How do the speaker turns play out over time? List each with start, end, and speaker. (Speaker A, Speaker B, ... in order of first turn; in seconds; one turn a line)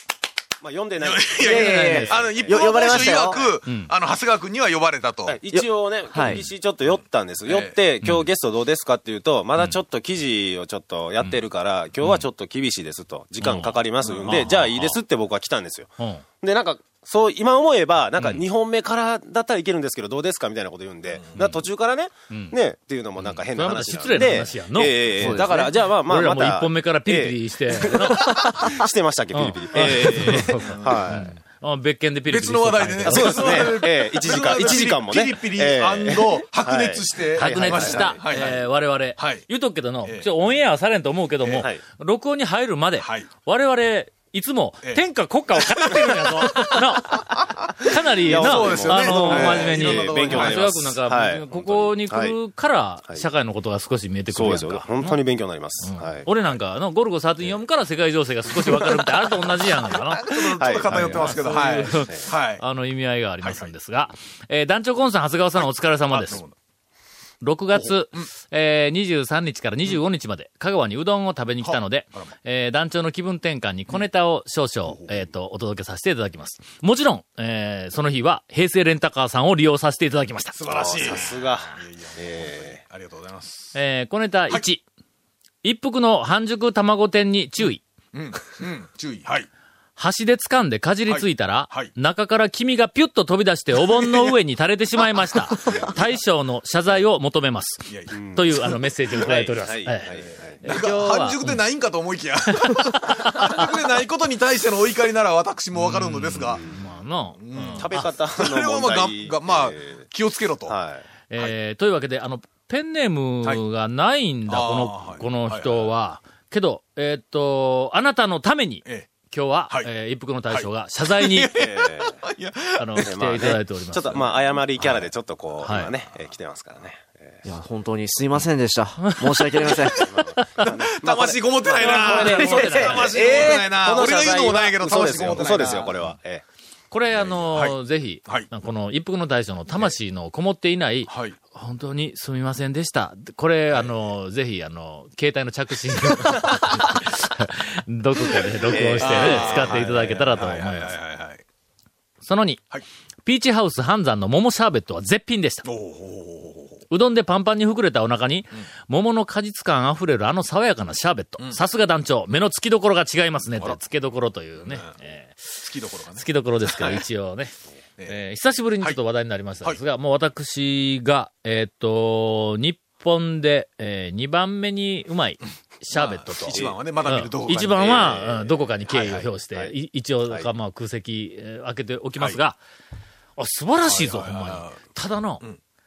Speaker A: 0.6-3.5
Speaker B: 1.0-5.4
Speaker C: 1.5-2.2
Speaker D: 1.8-2.1
Speaker A: 5.3-31.3
Speaker D: 5.5-6.5
Speaker B: 7.5-7.8
Speaker C: 13.4-15.0
Speaker B: 14.0-14.5
Speaker C: 23.5-28.4
Speaker D: 25.2-25.6
Speaker B: 28.3-28.6
Speaker C: 29.3-33.9
Speaker B: 30.2-31.3
Speaker B: 32.3-38.6
Speaker A: 33.1-38.6
Speaker C: 37.4-55.2
Speaker B: 39.2-39.5
Speaker B: 40.0-40.3
Speaker A: 41.6-41.8
Speaker B: 43.0-43.3
Speaker B: 45.6-46.8
Speaker B: 48.2-50.8
Speaker A: 48.2-52.4
Speaker A: 54.3-56.3
Speaker C: 55.8-66.4
Speaker A: 58.6-59.0
Speaker B: 59.9-62.6
Speaker A: 60.6-62.2
Speaker B: 63.4-63.7
Speaker B: 65.6-66.5
Speaker C: 67.4-80.5
Speaker B: 67.7-68.3
Speaker B: 71.6-72.3
Speaker B: 74.9-75.3
Speaker B: 80.5-83.8
Speaker A: 80.7-82.8
Speaker C: 83.8-84.8
Speaker C: 85.6-87.8
Speaker B: 88.1-89.5
Speaker C: 90.0-101.6
Speaker B: 91.1-91.9
Speaker B: 93.8-94.3
Speaker B: 95.5-96.0
Speaker B: 97.9-99.3
Speaker A: 98.1-98.5
Speaker A: 99.1-100.6
Speaker B: 100.6-106.6
Speaker C: 102.7-103.6
Speaker C: 105.8-108.1
Speaker B: 107.4-110.8
Speaker A: 107.6-110.0
Speaker A: 110.7-111.1
Speaker C: 111.3-121.5
Speaker B: 114.5-115.9
Speaker B: 118.8-119.1
Speaker B: 120.5-123.6
Speaker A: 121.5-122.2
Speaker C: 122.8-124.3
Speaker A: 123.0-127.5
Speaker B: 124.1-125.1
Speaker C: 125.6-125.9
Speaker D: 127.5-130.1
Speaker C: 129.1-130.6
Speaker A: 129.9-136.4
Speaker B: 130.6-136.1
Speaker C: 131.8-133.6
Speaker C: 135.4-135.8
Speaker C: 136.9-150.9
Speaker A: 137.1-137.4
Speaker B: 137.5-138.5
Speaker B: 141.1-141.4
Speaker A: 148.7-150.7
Speaker B: 148.7-151.4
Speaker C: 152.2-152.6
Speaker C: 153.3-155.7
Speaker B: 155.6-156.8
Speaker C: 156.9-165.6
Speaker B: 164.6-164.9
Speaker B: 165.6-167.0
Speaker C: 166.2-167.5
Speaker C: 168.1-182.6
Speaker B: 175.9-178.3
Speaker A: 177.7-179.7
Speaker C: 183.4-185.4
Speaker B: 183.8-184.8